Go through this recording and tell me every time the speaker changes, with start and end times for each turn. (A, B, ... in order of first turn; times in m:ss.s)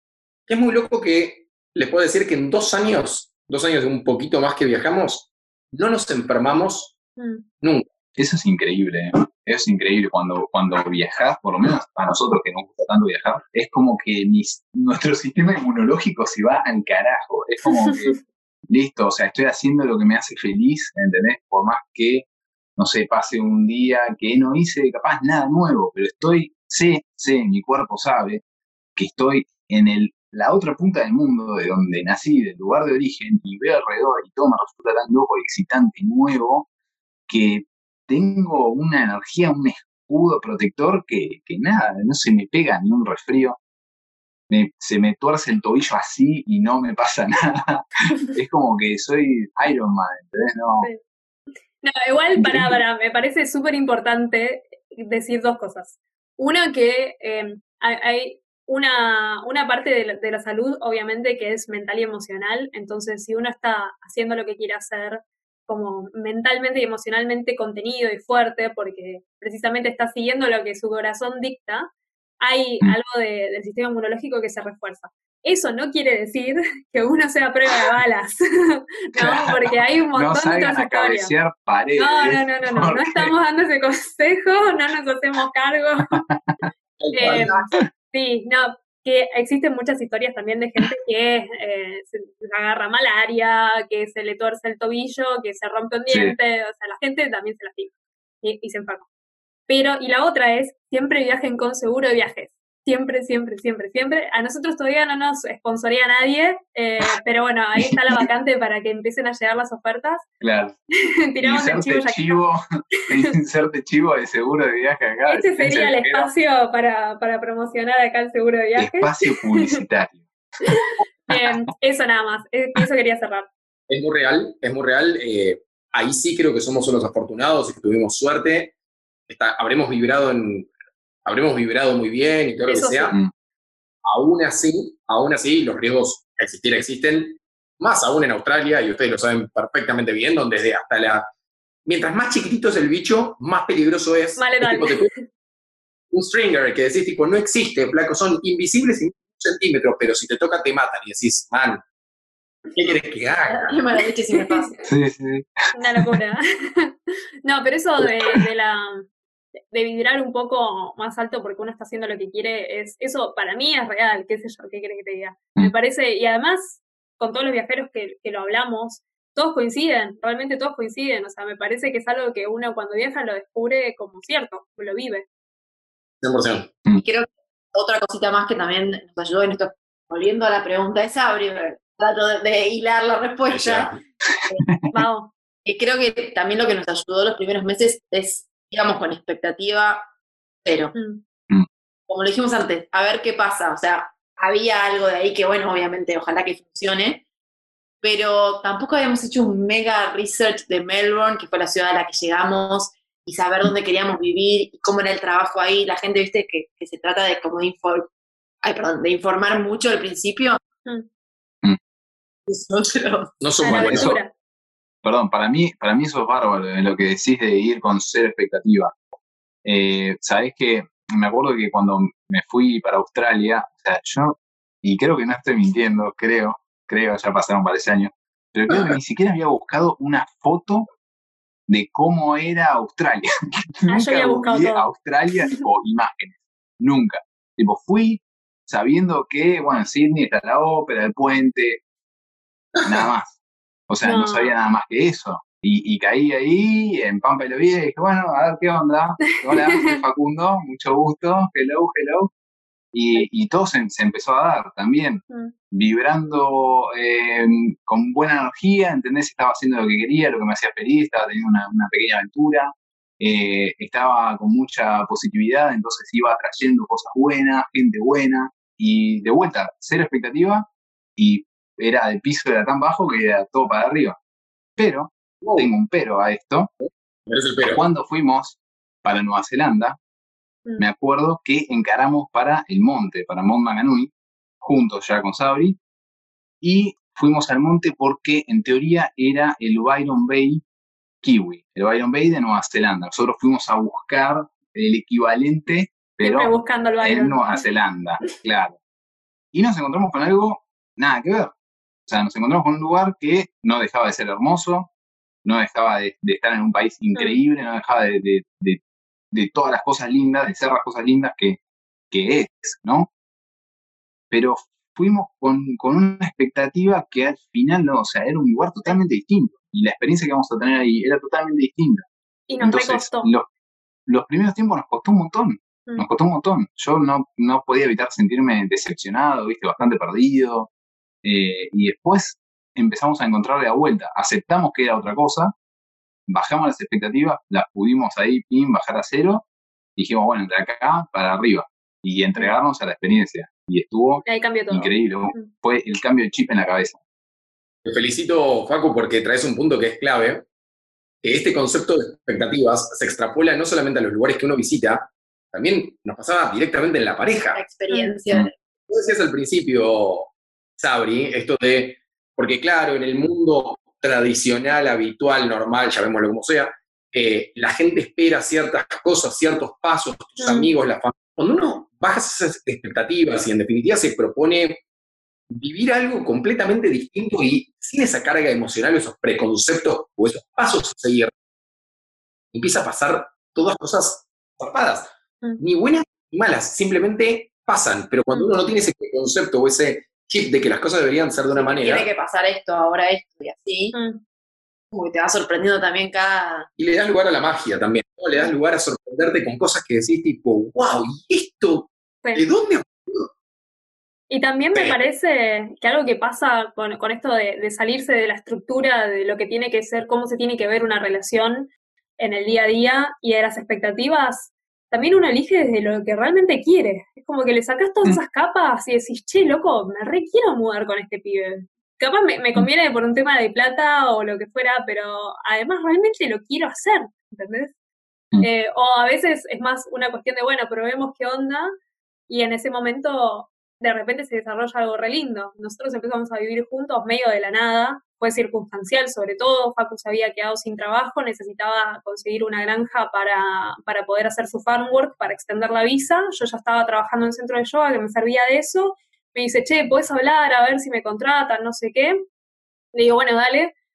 0:00.5-0:07.0 A
0:07.2-0:07.4 B
0:07.6-0:07.9 A
0:08.2-0:28.4 C
0:29.0-0:36.7 C
0:37.3-0:43.6 C
0:44.5-0:50.9 C
0:51.8-1:21.3 B
0:52.4-0:52.8 C
1:19.2-1:23.3 C
1:22.0-1:26.2 B
1:26.1-1:26.7 C
1:27.0-1:27.6 A
1:27.1-1:39.0 B
1:36.1-1:36.3 C
1:39.7-1:50.2 B
1:50.4-1:50.7 C
1:51.3-1:52.4 B
1:51.4-1:56.3 C
1:55.3-1:59.8 B
1:58.8-2:00.2 C
2:00.7-2:03.5 B
2:03.9-2:08.7 A
2:09.3-2:10.7 A
2:11.2-2:13.2 A
2:12.6-2:13.2 B
2:14.0-2:21.3 A
2:21.8-2:25.1 A
2:24.4-2:25.2 B
2:26.1-2:31.8 A
2:32.8-2:33.8 A
2:33.5-2:34.7 D
2:34.4-2:34.7 B
2:34.8-2:36.0 C
2:35.7-2:39.1 B
2:39.7-2:55.2 B
2:56.2-2:56.7 A
2:56.9-3:03.9 D
3:03.5-3:04.0 A
3:04.9-3:05.3 B
3:05.6-3:10.1 D
3:10.6-3:10.9 D
3:10.9-3:11.2 B
3:12.1-3:17.2 D
3:18.0-3:28.1 D
3:28.6-3:30.6 D
3:32.5-3:33.3 D
3:33.4-3:34.1 A
3:33.6-3:34.3 B
3:33.7-3:34.2 C
3:35.0-3:38.9 C
3:39.6-3:50.9 C
3:51.7-3:53.3 C
3:53.8-4:01.8 C
3:53.9-3:54.9 B
4:02.7-4:03.0 A
4:02.8-4:03.4 C
4:03.9-4:12.3 C
4:04.0-4:04.5 B
4:09.4-4:10.0 B
4:12.9-4:34.2 C
4:34.8-4:36.7 C
4:35.4-4:35.7 A
4:36.8-4:37.8 A
4:37.6-4:40.0 C
4:40.8-4:45.8 C
4:46.6-4:50.6 C
4:51.2-4:58.8 C
4:56.2-4:57.6 B
4:59.5-5:01.5 C
5:02.1-5:04.9 C
5:05.4-5:08.8 C
5:07.2-5:07.4 B
5:09.3-5:11.6 C
5:12.1-5:13.1 C
5:14.3-5:22.0 C
5:22.5-5:23.3 B
5:22.6-5:23.5 C
5:24.1-5:30.7 C
5:31.2-5:35.5 C
5:36.3-5:47.0 C
5:44.2-5:45.5 B
5:47.8-5:50.4 A
5:51.2-5:57.6 A
5:57.5-5:58.5 D
5:57.9-5:58.1 B
5:58.9-6:14.8 A
6:10.4-6:10.7 B
6:15.5-6:21.3 A
6:22.5-6:32.1 A
6:31.5-6:33.9 D
6:33.9-6:34.2 B
6:34.9-6:36.7 D
6:36.8-6:43.3 A
6:44.3-7:07.7 B
6:44.7-6:45.0 A
7:08.4-7:11.7 B
7:12.3-7:32.2 B
7:32.9-7:33.7 B